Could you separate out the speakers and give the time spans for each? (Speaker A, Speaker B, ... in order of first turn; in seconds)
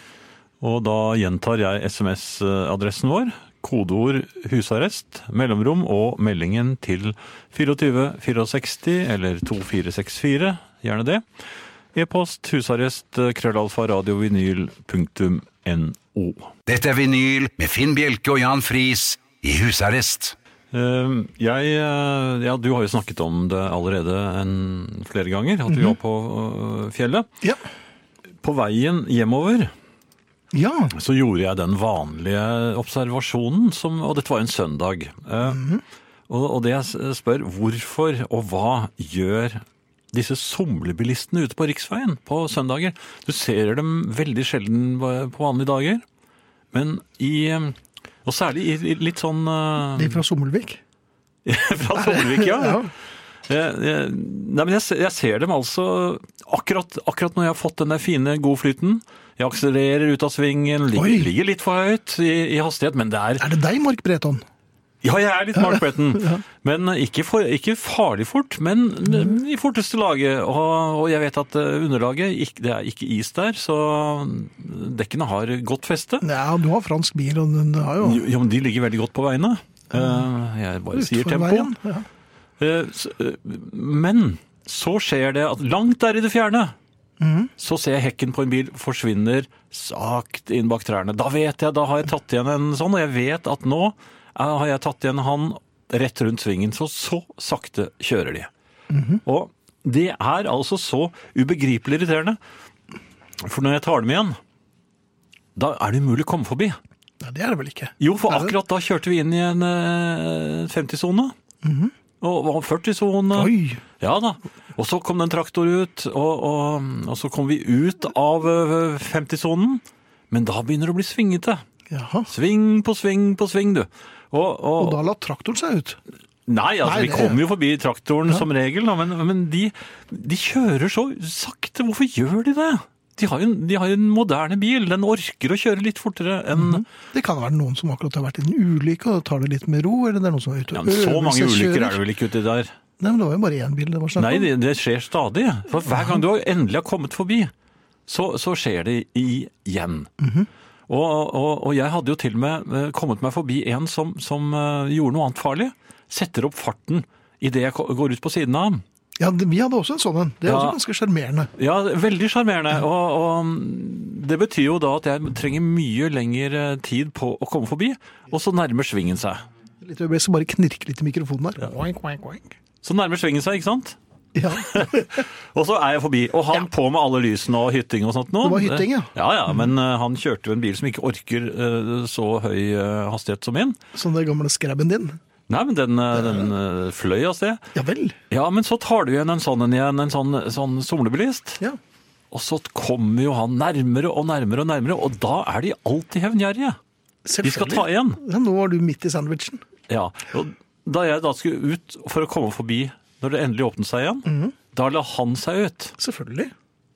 Speaker A: 0.6-11.2, 11.9-16.5, 20.7-27.3, 28.4-29.7, 30.9-35.6, 36.3-46.0, 46.7-50.2, 51.5-52.8, 53.5-63.5, 65.0-76.2, 78.0-81.7, 82.6-86.7, 87.6-98.5, 99.3-102.4, 103.4-104.4, 105.6-106.8, 108.0-111.3, 112.2-121.6, 122.3-125.0, 126.5-136.8, 140.7-142.7, 144.2-147.5, 148.1-150.1, 150.9-158.8, 160.4-160.8, 161.6-169.4, 172.8-174.0, 174.5-183.8, 185.5-187.6, 188.3-191.6, 192.3-196.8, 197.4-198.2, 199.9-206.0
Speaker B: 16.7-20.4
Speaker C: 25.7-26.0, 30.5-30.9, 35.5-35.8, 50.0-50.8, 52.0-52.9, 61.0-61.3, 63.4-64.4, 65.5-66.4, 76.2-78.2, 79.9-80.3, 80.9-82.1, 87.2-87.5, 98.9-99.2, 107.2-108.5, 111.6-111.9, 113.3-113.8, 121.9-122.3, 124.8-126.0, 126.8-127.4, 136.5-142.0, 143.0-144.5, 145.9-146.2, 150.2-150.5, 159.2-161.5, 169.8-172.5, 174.3-175.2, 178.4-179.7, 183.9-185.2, 186.2-186.5, 187.8-188.2, 197.2-199.6, 204.3-204.6, 206.0-206.5